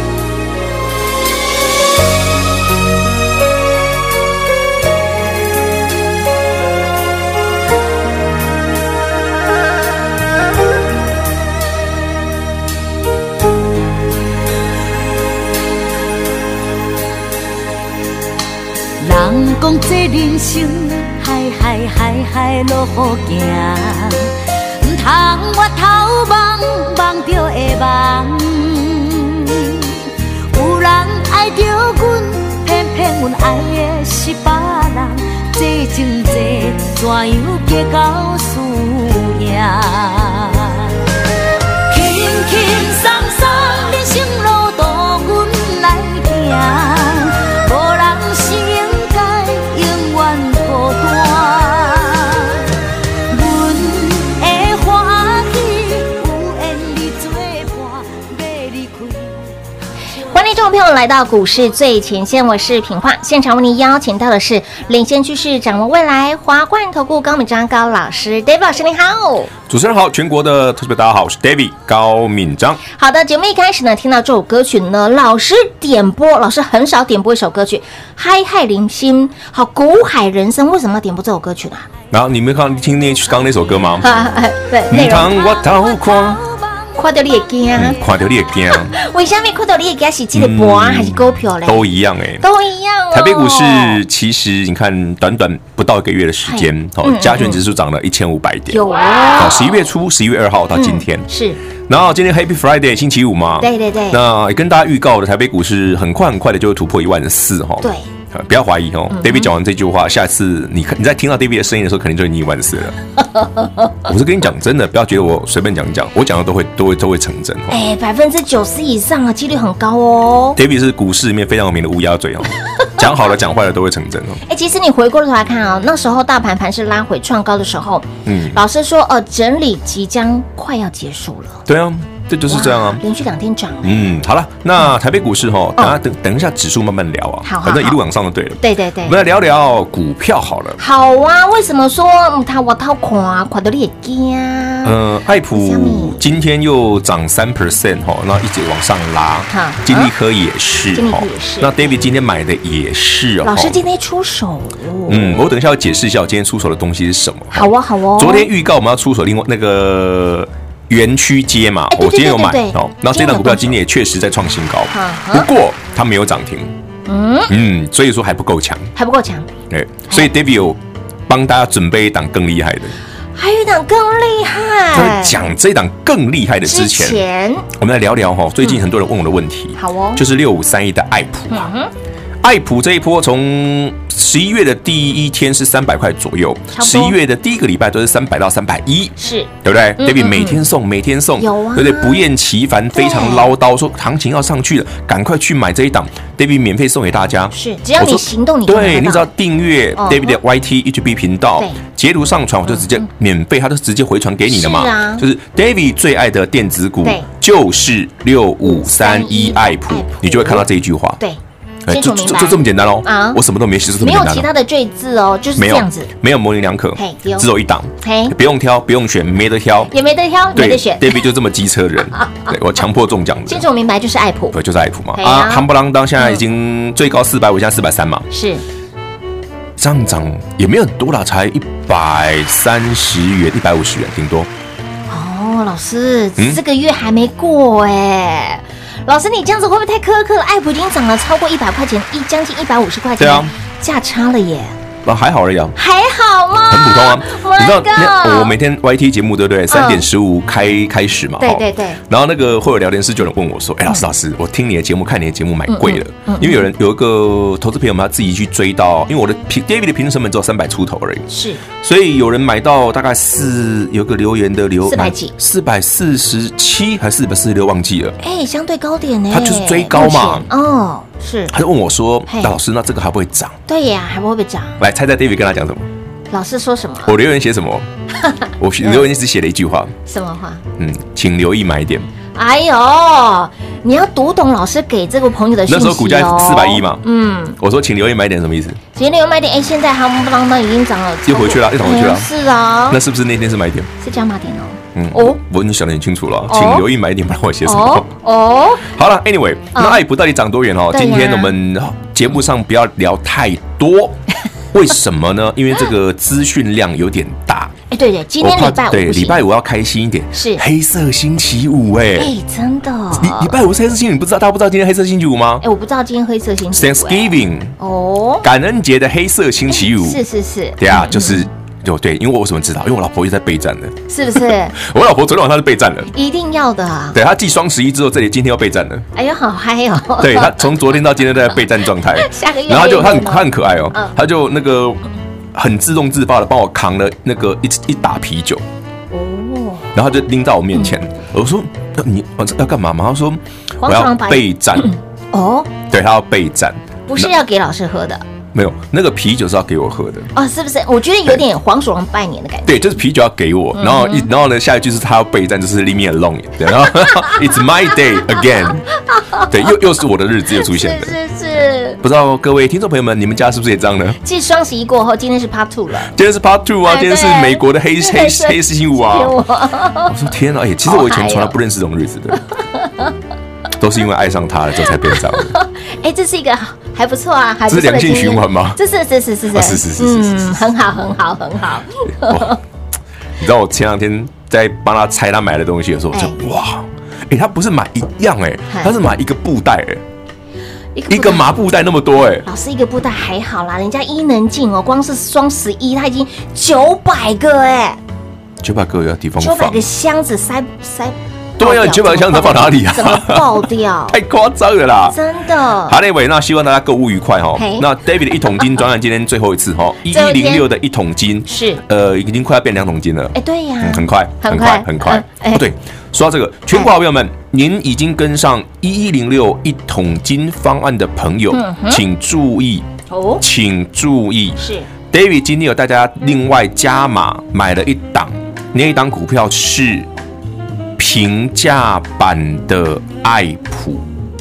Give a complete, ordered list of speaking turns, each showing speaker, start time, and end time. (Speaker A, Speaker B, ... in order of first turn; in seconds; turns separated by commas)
Speaker A: 19.0-41.0, Speaker A: 41.9-52.8, Speaker A: 53.3-59.5, Speaker B: 60.3-69.5, Speaker C: 69.7-72.8, Speaker B: 72.9-81.9, Speaker C: 82.1-84.1, Speaker B: 84.0-85.3, Speaker C: 84.9-86.4, Speaker A: 85.3-87.5, Speaker B: 87.0-88.0, Speaker C: 87.7-89.0, Speaker B: 88.7-91.8, Speaker C: 90.3-92.4, Speaker B: 92.4-94.0, Speaker C: 93.1-101.3, Speaker B: 96.5-97.6, Speaker B: 98.7-99.8, Speaker B: 100.7-101.6, Speaker C: 101.9-113.0, Speaker B: 103.6-104.2, Speaker B: 107.8-108.1, Speaker B: 109.1-109.5, Speaker C: 114.0-117.8, Speaker B: 117.7-120.6, Speaker C: 120.5-124.4, Speaker B: 124.5-131.6, Speaker C: 128.2-128.6, Speaker C: 131.7-133.0, Speaker B: 132.5-134.2, Speaker C: 133.8-140.8, Speaker B: 137.4-138.0, Speaker B: 138.6-139.2, Speaker B: 140.8-145.0, Speaker C: 144.8-153.8, Speaker B: 145.5-146.2, Speaker B: 149.5-150.1, Speaker B: 150.9-152.1, Speaker B: 153.4-155.4, Speaker C: 155.1-166.7, Speaker B: 157.5-158.5, Speaker B: 161.9-163.8, Speaker B: 164.9-165.5, Speaker B: 167.1-167.5, Speaker C: 167.5-168.9, Speaker B: 168.9-169.5, Speaker C: 169.7-172.9, Speaker B: 173.3-175.4, Speaker C: 174.9-177.2, Speaker B: 176.6-177.7, Speaker C: 177.7-181.7, Speaker B: 179.8-180.2, Speaker B: 181.5-181.9, Speaker C: 182.4-211.2, Speaker B: 186.7-187.2, Speaker B: 189.2-190.6, Speaker B: 191.4-192.3, Speaker B: 192.9-193.5, Speaker B: 197.5-199.3, Speaker B: 200.0-200.4, Speaker B: 202.7-203.0, Speaker B: 204.5-205.3, Speaker B: 207.0-207.3, Speaker B: 208.6-210.7, Speaker B: 211.2-213.4, Speaker C: 211.8-214.5, Speaker B: 213.9-216.1, Speaker C: 215.6-219.9, Speaker B: 216.9-218.3, Speaker B: 219.9-221.2, Speaker C: 220.5-223.6, Speaker B: 222.1-222.5, Speaker B: 223.5-224.6, Speaker C: 224.5-228.3, Speaker B: 225.1-225.6, Speaker B: 228.3-228.6, Speaker C: 229.8-234.5, Speaker B: 235.1-244.8, Speaker C: 243.2-243.5, Speaker C: 245.0-245.7, Speaker B: 245.8-248.5, Speaker C: 246.7-268.2, Speaker B: 249.7-250.1, Speaker B: 251.4-252.0, Speaker B: 255.7-256.7, Speaker B: 261.3-261.6, Speaker B: 264.9-265.3, Speaker B: 268.2-271.5, Speaker C: 269.3-270.5, Speaker C: 271.5-273.6, Speaker B: 272.3-272.5, Speaker B: 273.7-274.8, Speaker C: 274.8-275.9, Speaker B: 276.3-277.1, Speaker C: 277.0-277.9, Speaker B: 278.2-279.1, Speaker C: 278.6-279.9, Speaker B: 280.1-280.6, Speaker C: 280.8-282.1, Speaker B: 282.3-287.6, Speaker C: 285.7-287.0, Speaker C: 287.6-288.8, Speaker B: 288.9-293.0, Speaker C: 291.3-292.3, Speaker C: 292.9-293.9, Speaker B: 294.0-295.4, Speaker C: 294.9-298.1, Speaker B: 296.5-296.9, Speaker B: 297.6-298.9, Speaker C: 298.8-304.2, Speaker B: 299.7-300.0, Speaker B: 300.9-301.5, Speaker C: 304.7-307.7, Speaker B: 307.9-309.4, Speaker C: 308.4-312.3, Speaker B: 310.3-310.6, Speaker B: 312.1-313.5, Speaker C: 313.1-315.6, Speaker B: 315.6-318.4, Speaker C: 316.7-317.8, Speaker C: 318.4-320.2, Speaker B: 319.7-321.4, Speaker C: 320.8-326.1, Speaker B: 324.1-324.7, Speaker B: 326.1-327.2, Speaker C: 327.1-329.0, Speaker B: 329.1-330.7, Speaker C: 330.2-335.0, Speaker B: 332.1-334.1, Speaker C: 335.5-338.6, Speaker B: 339.1-339.9, Speaker C: 339.9-344.9, Speaker B: 343.8-345.7, Speaker C: 345.9-347.3, Speaker B: 347.1-348.2, Speaker C: 348.5-350.3, Speaker B: 350.3-352.9, Speaker C: 352.6-358.9, Speaker B: 353.7-354.3, Speaker B: 359.1-359.5, Speaker C: 359.4-361.1, Speaker B: 360.5-362.0, Speaker C: 362.0-364.2, Speaker B: 364.2-366.1, Speaker C: 366.1-369.4, Speaker B: 366.9-370.1, Speaker C: 370.1-372.4, Speaker B: 370.8-371.5, Speaker B: 372.8-373.1, Speaker C: 373.8-375.5, Speaker B: 375.0-382.6, Speaker C: 377.7-378.8, Speaker C: 379.5-380.6, Speaker C: 382.2-382.6, Speaker C: 383.4-390.0, Speaker B: 386.1-386.4, Speaker B: 388.7-388.9, Speaker B: 390.9-391.5, Speaker C: 391.1-392.4, Speaker B: 392.4-398.0, Speaker C: 398.6-399.9, Speaker B: 399.4-404.2, Speaker C: 401.6-405.2, Speaker B: 405.1-406.0, Speaker C: 405.9-422.9, Speaker B: 407.6-407.9, Speaker B: 410.1-410.7, Speaker B: 411.5-411.8, Speaker B: 413.3-415.7, Speaker B: 421.5-422.0, Speaker B: 423.1-423.4, Speaker C: 423.4-430.1, Speaker B: 424.6-424.9, Speaker C: 431.0-434.0